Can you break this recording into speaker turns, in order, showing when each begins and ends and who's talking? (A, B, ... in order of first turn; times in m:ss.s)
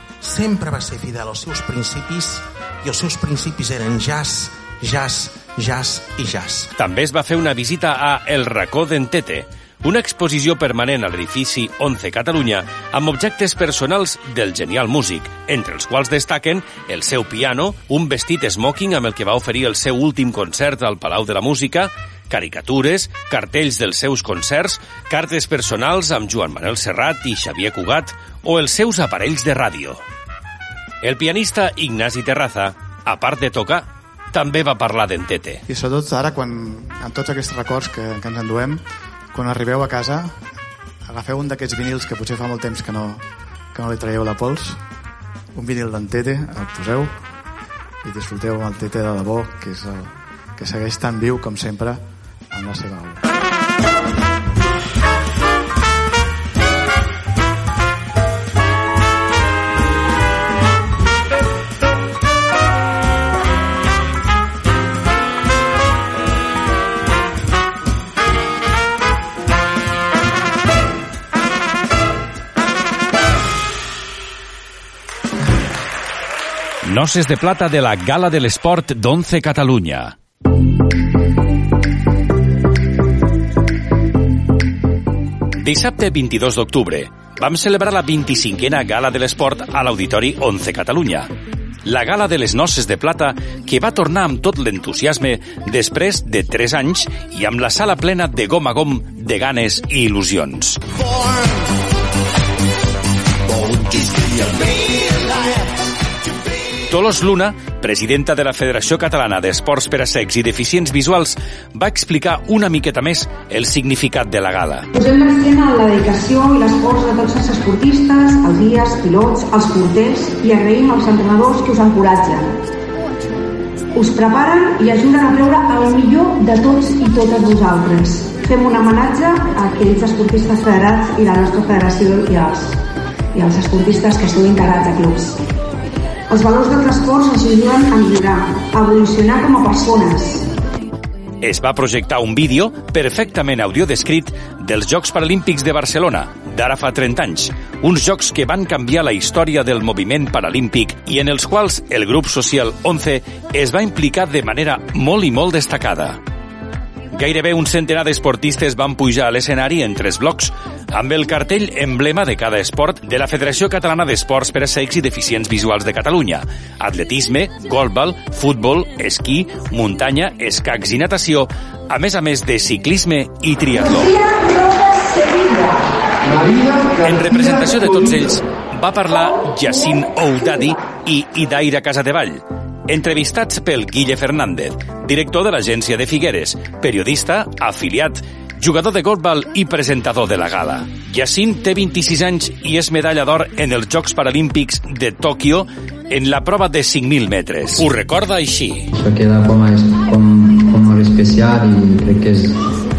0:00.2-0:06.7 A
0:06.8-0:30.0 B
0:31.0-0:35.6 B
0:35.7-0:38.8 C
0:39.3-0:40.3 C
0:41.0-0:43.2 C
0:43.7-0:44.8 C
0:45.5-0:47.1 C
0:48.0-0:53.2 C
1:16.8-1:20.1 B
1:25.6-1:31.3 B
1:31.8-1:40.8 B
1:46.9-1:54.8 B
1:54.9-2:02.6 D
2:03.9-2:12.8 D
2:13.3-2:15.4 D
2:16.3-2:20.5 D
2:21.4-2:36.2 B
2:37.1-2:54.1 B
2:53.7-2:57.8 D
2:57.0-3:18.9 B
3:18.9-3:22.6 E